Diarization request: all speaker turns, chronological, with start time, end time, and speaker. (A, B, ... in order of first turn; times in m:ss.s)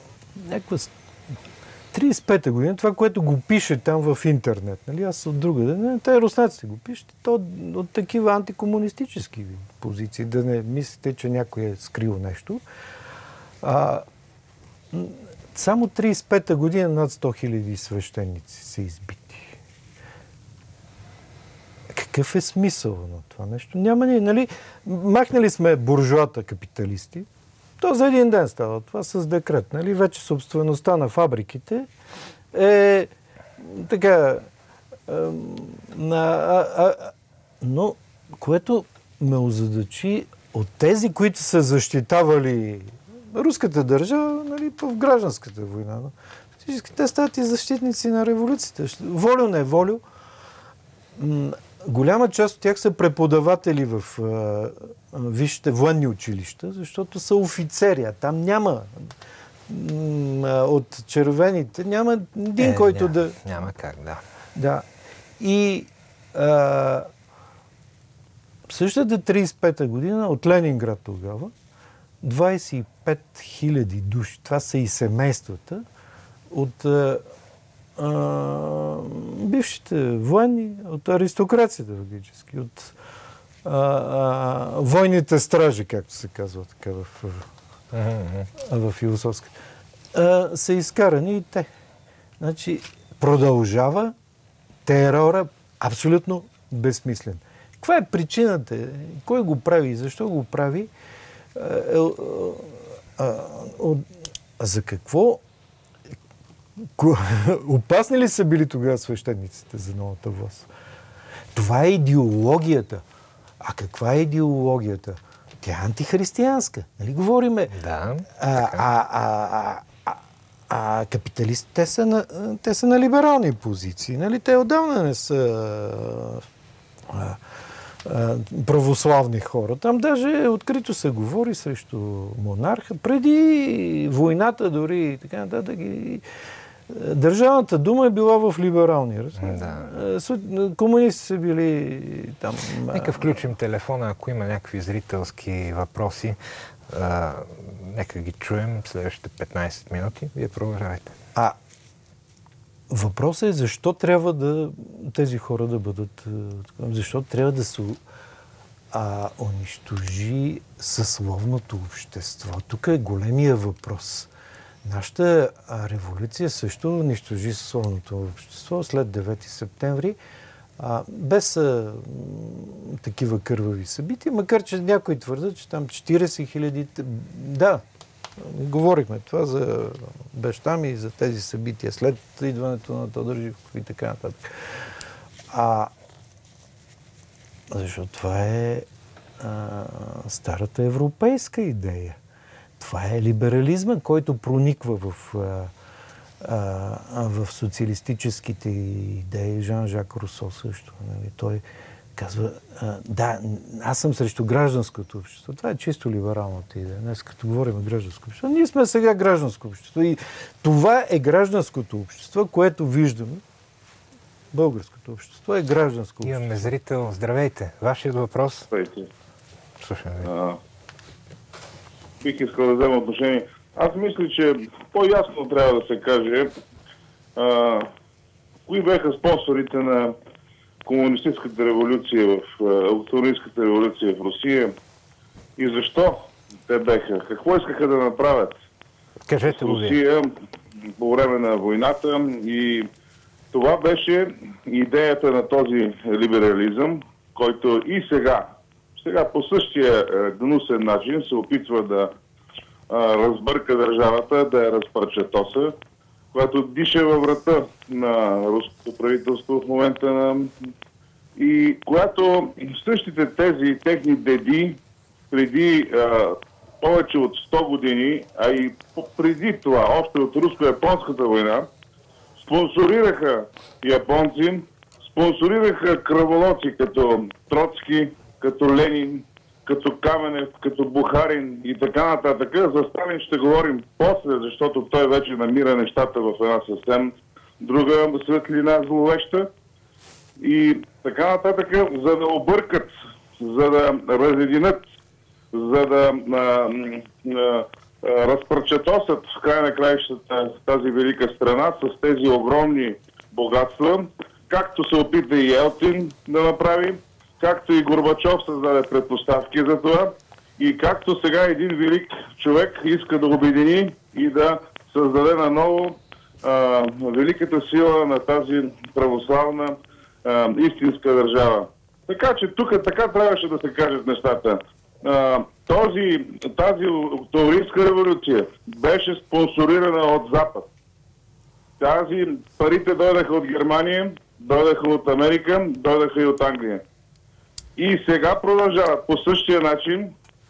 0:00.4-0:00.9 A
0:01.9-0:12.6 A
0:13.6-0:14.0 A
0:14.9-0:19.6 A
0:21.9-0:27.3 A
0:27.8-0:31.9 A
0:32.5-0:34.5 A
0:35.1-0:46.1 A
0:46.6-0:50.0 A
0:51.2-0:59.0 A
0:59.7-1:03.4 A
1:02.6-1:04.2 B
1:04.6-1:04.8 A
1:05.4-1:07.1 A
1:08.7-1:11.5 A
1:12.2-1:15.8 A
1:16.5-1:17.2 A
1:18.0-1:22.9 A
1:23.6-1:27.4 A
1:27.9-1:28.5 B
1:28.6-1:29.5 A
1:30.1-1:31.7 A
1:32.4-1:34.1 A
1:34.8-1:40.9 A
1:41.5-1:44.0 A
1:44.6-1:45.4 A
1:46.9-1:50.7 A
1:51.5-1:53.0 A
1:53.6-1:57.7 A
1:57.7-1:58.8 B
1:58.4-2:06.4 A
2:07.1-2:07.4 A
2:08.0-2:16.2 A
2:16.9-2:23.3 A
2:19.4-2:19.9 B
2:22.9-2:26.4 B
2:26.9-2:31.1 B
2:32.9-2:38.0 A
2:38.9-2:44.3 A
2:44.8-2:50.2 A
2:50.8-2:57.8 A
2:58.4-3:04.5 A
3:05.5-3:05.9 A
3:07.7-3:08.9 A
3:09.4-3:12.2 A
3:12.8-3:15.7 A
3:16.4-3:21.6 A
3:22.2-3:33.4 A
3:34.5-3:36.6 A
3:36.2-3:38.7 B
3:38.7-3:39.1 C
3:39.8-3:40.3 B
3:40.2-3:40.6 C
3:42.2-3:46.5 C
3:47.4-3:47.9 C
3:48.7-3:50.1 C
3:50.8-3:54.7 C
3:55.6-3:58.5 C
3:59.3-4:00.0 B
3:59.4-4:00.3 C
4:01.0-4:02.9 C
4:03.5-4:12.1 C
4:12.9-4:15.7 C
4:16.3-4:20.5 C
4:21.4-4:24.8 C
4:25.3-4:31.7 C
4:32.4-4:49.5 C
4:50.4-4:54.8 C
4:55.5-5:30.7 C
5:31.8-5:36.8 C
5:37.8-5:40.1 C